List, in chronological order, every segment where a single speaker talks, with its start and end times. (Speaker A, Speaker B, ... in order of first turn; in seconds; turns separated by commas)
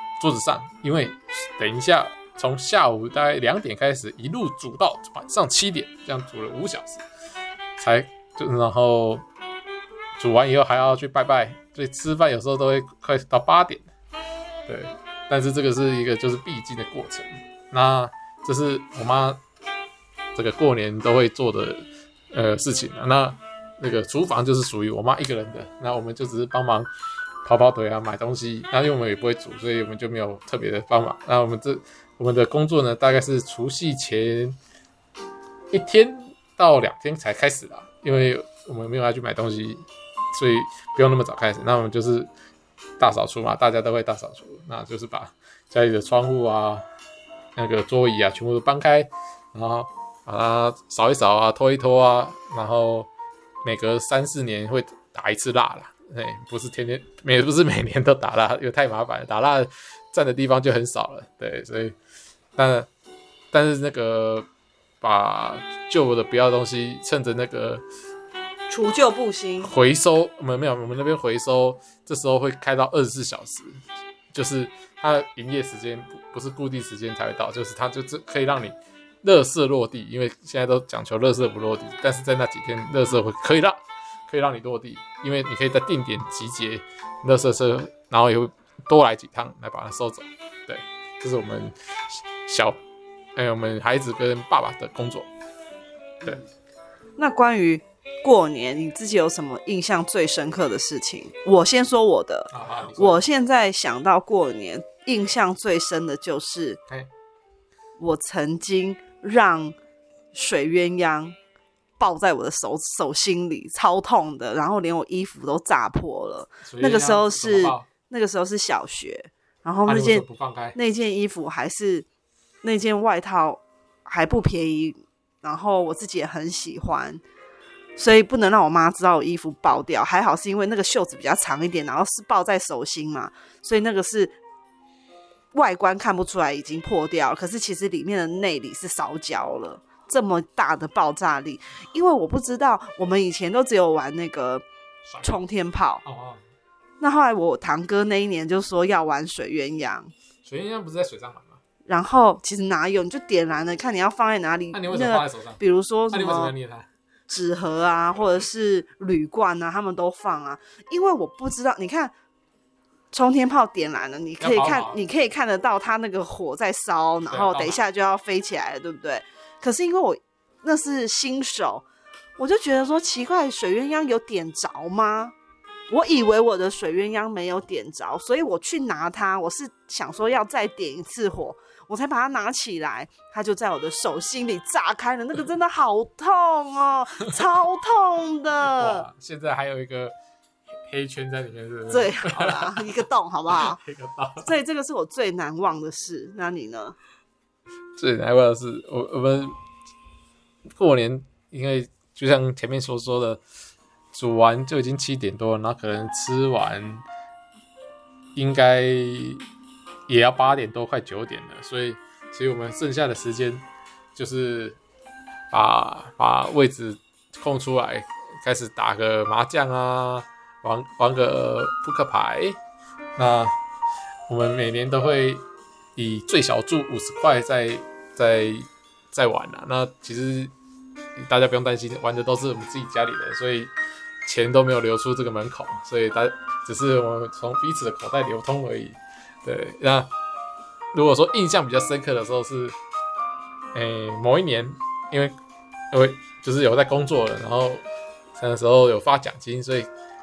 Speaker A: 0.2-7.0, Speaker A: 7.8-9.2, Speaker A: 10.2-13.9, Speaker A: 14.7-19.4, Speaker A: 20.4-26.9, Speaker A: 27.4-34.6, Speaker A: 35.7-39.8, Speaker A: 40.3-42.3, Speaker A: 43.0-46.9, Speaker A: 47.6-53.1, Speaker A: 53.6-62.0, Speaker A: 62.6-62.9, Speaker A: 63.5-64.5, Speaker A: 65.0-67.8, Speaker B: 68.7-69.7, Speaker A: 69.6-73.8, Speaker A: 74.3-92.8, Speaker A: 93.4-95.3, Speaker B: 97.2-106.8, Speaker A: 102.5-103.2, Speaker B: 108.0-109.8, Speaker B: 110.3-111.3, Speaker B: 112.0-122.1, Speaker A: 116.7-117.9, Speaker A: 119.9-120.8, Speaker B: 122.6-127.2, Speaker B: 128.0-134.4, Speaker B: 135.5-144.6, Speaker A: 145.1-145.4, Speaker B: 145.2-146.0, Speaker A: 146.1-146.4, Speaker B: 147.0-150.1, Speaker A: 150.4-151.6, Speaker B: 151.9-156.6, Speaker A: 154.7-155.6, Speaker A: 156.1-156.9, Speaker B: 157.3-162.1, Speaker B: 163.1-171.8, Speaker A: 164.4-165.0, Speaker A: 167.3-167.8, Speaker B: 172.4-175.3, Speaker B: 175.9-189.1, Speaker A: 188.6-190.1, Speaker A: 190.9-192.9, Speaker B: 191.9-193.8, Speaker A: 193.5-194.5, Speaker B: 194.4-197.0, Speaker A: 198.0-199.6, Speaker A: 200.8-203.4, Speaker A: 204.1-207.0, Speaker A: 208.3-209.4, Speaker A: 210.1-213.6, Speaker A: 214.2-214.8, Speaker A: 215.5-222.6, Speaker A: 223.2-223.6, Speaker A: 224.3-225.4, Speaker A: 226.0-230.5, Speaker A: 231.2-233.7, Speaker A: 234.2-240.1, Speaker A: 240.9-242.8, Speaker A: 243.7-245.3, Speaker A: 245.9-247.8, Speaker A: 248.4-249.9